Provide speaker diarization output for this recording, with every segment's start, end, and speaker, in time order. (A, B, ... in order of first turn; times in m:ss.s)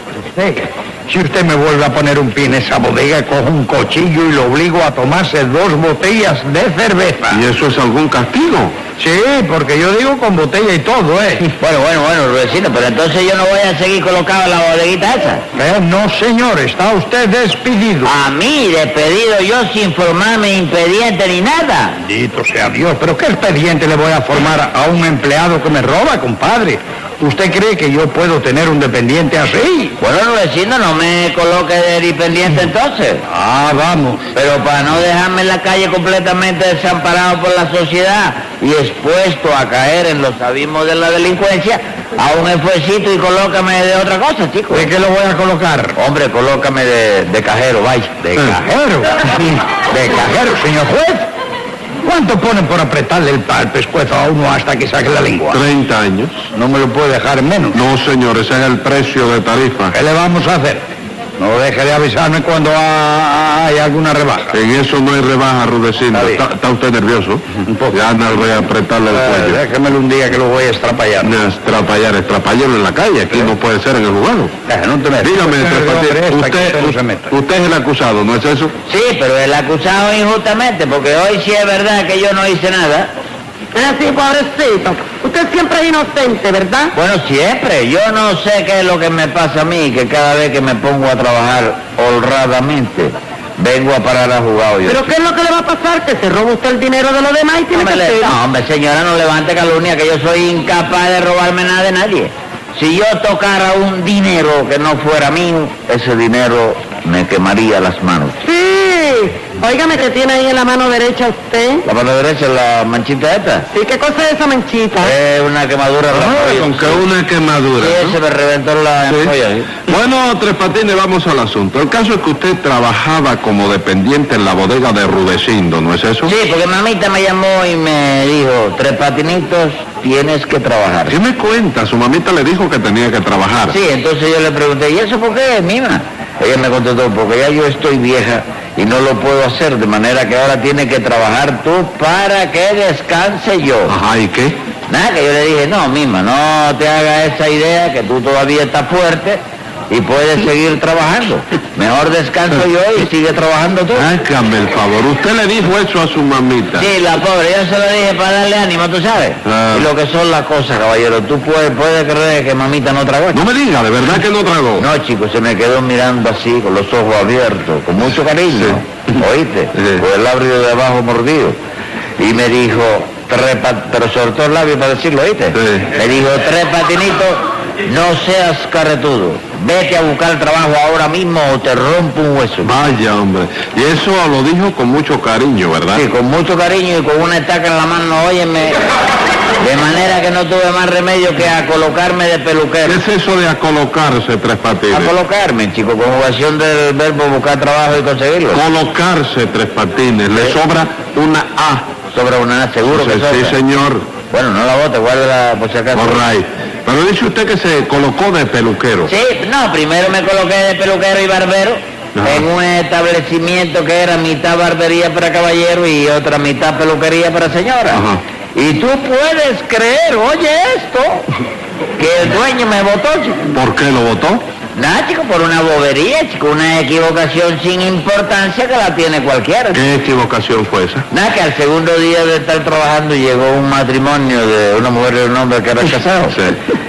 0:00.3-0:07.4 A
0:07.3-0:08.8 B
0:09.0-0:11.5 A
0:11.6-0:15.4 C
0:15.5-0:18.1 A
0:18.0-0:22.0 C
0:22.0-0:30.0 A
0:30.0-0:33.2 C
0:33.3-0:34.3 A
0:34.3-0:44.9 C
0:44.7-0:46.0 A
0:46.0-0:48.1 C
0:48.1-0:51.3 A
0:52.0-0:55.6 A
0:55.5-0:56.4 B
0:56.5-0:57.8 A
0:57.7-0:59.9 B
0:59.9-1:00.8 A
1:01.4-1:04.5 A
1:04.5-1:09.6 B
1:06.1-1:06.4 A
1:07.6-1:08.0 A
1:09.1-1:11.3 A
1:11.2-1:14.5 B
1:14.7-1:17.3 A
1:15.2-1:18.7 B
1:18.9-1:23.1 C
1:23.7-1:26.9 D
1:26.9-1:35.0 C
1:34.8-1:38.3 D
1:37.7-1:48.4 C
1:48.4-1:51.8 D
1:51.8-1:53.6 C
1:53.7-1:55.1 D
1:55.0-1:57.0 C
1:56.1-1:58.2 B
1:57.8-1:59.7 C
1:59.9-2:06.3 B
2:06.2-2:11.2 C
2:11.1-2:13.8 B
2:13.7-2:23.9 C
2:23.9-2:24.6 B
2:24.9-2:34.0 C
2:33.9-2:36.9 B
2:36.8-2:43.4 C
2:39.4-2:39.9 B
2:43.3-2:44.8 B
2:44.8-2:51.6 C
2:48.5-2:48.8 B
2:52.2-3:02.7 C
2:55.5-2:55.9 B
3:02.6-3:06.0 B
3:05.9-3:08.8 C
3:09.6-3:13.0 C
3:12.8-3:15.1 B
3:14.9-3:18.6 C
3:18.5-3:21.9 B
3:22.1-3:23.6 C
3:22.9-3:24.1 B
3:24.3-3:26.2 C
3:25.9-3:29.1 B
3:29.1-3:38.0 C
3:32.2-3:32.4 B
3:37.9-3:38.2 B
3:38.5-3:41.3 C
3:42.0-3:43.4 C
3:43.5-3:44.4 B
3:44.7-3:49.8 C
3:49.7-3:51.0 B
3:51.1-3:56.4 C